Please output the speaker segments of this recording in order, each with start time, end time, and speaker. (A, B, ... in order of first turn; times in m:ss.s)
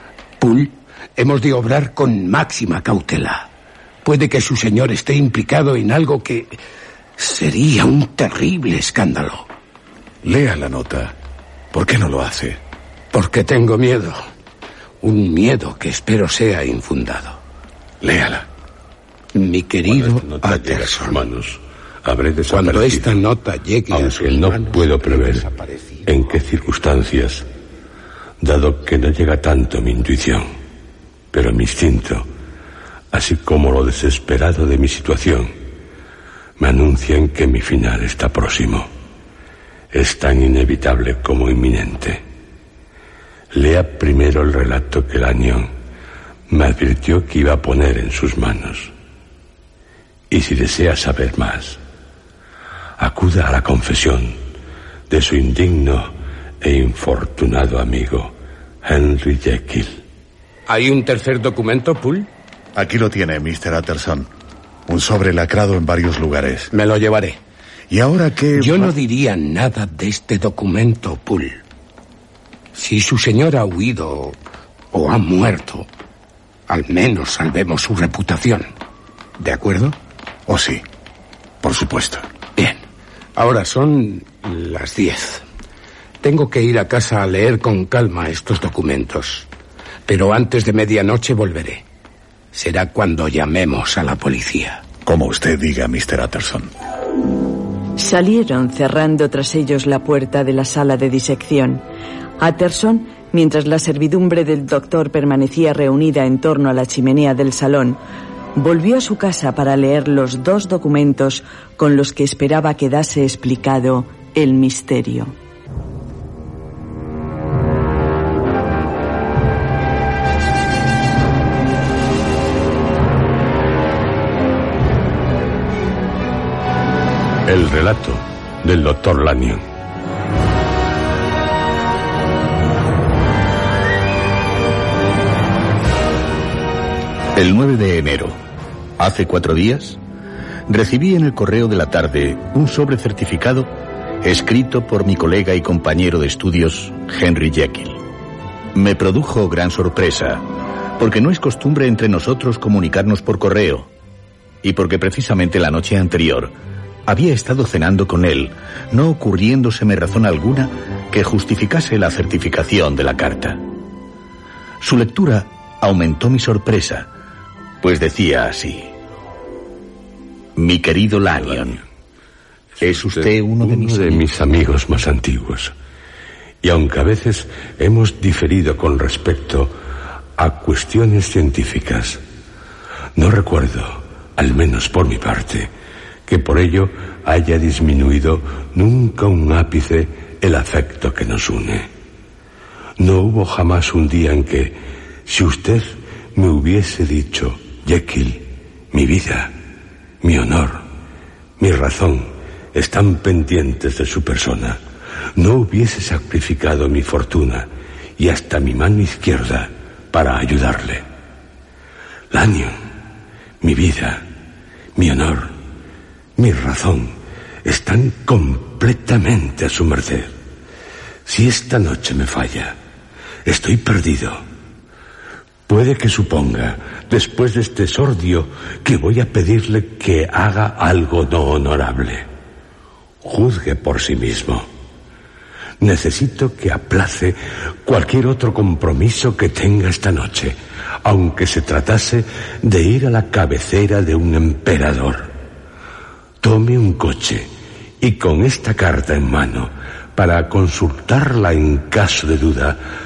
0:00.4-0:03.5 A
0:04.0-0:06.6 A
0:07.2-0:09.5 A
0:10.2-0:11.1 B
0:11.7-0:12.6 B
0:13.1-0:14.2 A
0:15.0-0:17.4 A
0:18.0-0:18.5 B
0:19.3-0:21.2 A
0:19.9-0:23.2 C
0:22.5-0:26.4 A
0:23.9-0:25.4 C
0:26.0-0:27.4 C
0:28.4-0:30.5 C
0:31.3-0:32.3 C
0:33.1-0:35.6 C
0:36.6-0:38.9 C
0:39.9-0:42.2 C
0:43.5-0:45.7 C
0:46.5-0:48.9 C
0:50.3-0:51.8 C
0:53.0-0:54.4 C
0:55.1-1:00.0 C
1:00.7-1:02.3 A
1:02.7-1:04.3 B
1:04.9-1:06.7 B
1:06.7-1:07.4 A
1:07.9-1:08.9 B
1:08.6-1:11.6 A
1:12.7-1:14.4 A
1:14.9-1:15.9 A
1:16.7-1:18.7 A
1:19.4-1:20.0 A
1:20.5-1:20.8 B
1:21.6-1:22.3 B
1:22.6-1:22.8 A
1:23.3-1:25.4 A
1:26.2-1:29.5 A
1:30.1-1:31.8 A
1:32.5-1:34.8 A
1:35.0-1:36.7 B
1:38.0-1:41.8 D
1:42.4-1:48.0 D
1:48.5-1:55.3 D
2:07.4-2:09.6 C
2:17.3-2:18.4 E
2:19.0-2:20.0 E
2:20.7-2:23.7 E
2:24.2-2:28.0 E
2:28.7-2:30.4 E
2:31.0-2:33.9 E
2:34.6-2:36.5 E
2:37.0-2:43.6 E
2:44.8-2:47.1 E
2:47.8-2:48.9 E
2:50.6-2:51.8 E
2:51.4-2:51.8 C
2:52.8-2:55.7 C
2:52.8-2:54.2 E
2:56.6-2:59.7 C
3:00.4-3:02.2 C
3:03.2-3:05.7 C
3:06.3-3:11.9 C
3:13.0-3:19.5 C
3:20.2-3:20.8 C
3:21.6-3:24.8 C
3:25.4-3:31.0 C
3:32.3-3:32.8 C
3:33.6-3:34.2 C
3:35.0-3:35.6 C
3:36.4-3:40.3 C
3:41.2-3:42.8 C
3:43.4-3:44.4 C
3:45.7-3:52.3 C
3:53.2-3:54.7 C
3:55.8-4:05.3 C
4:06.4-4:07.5 C
4:08.0-4:12.8 C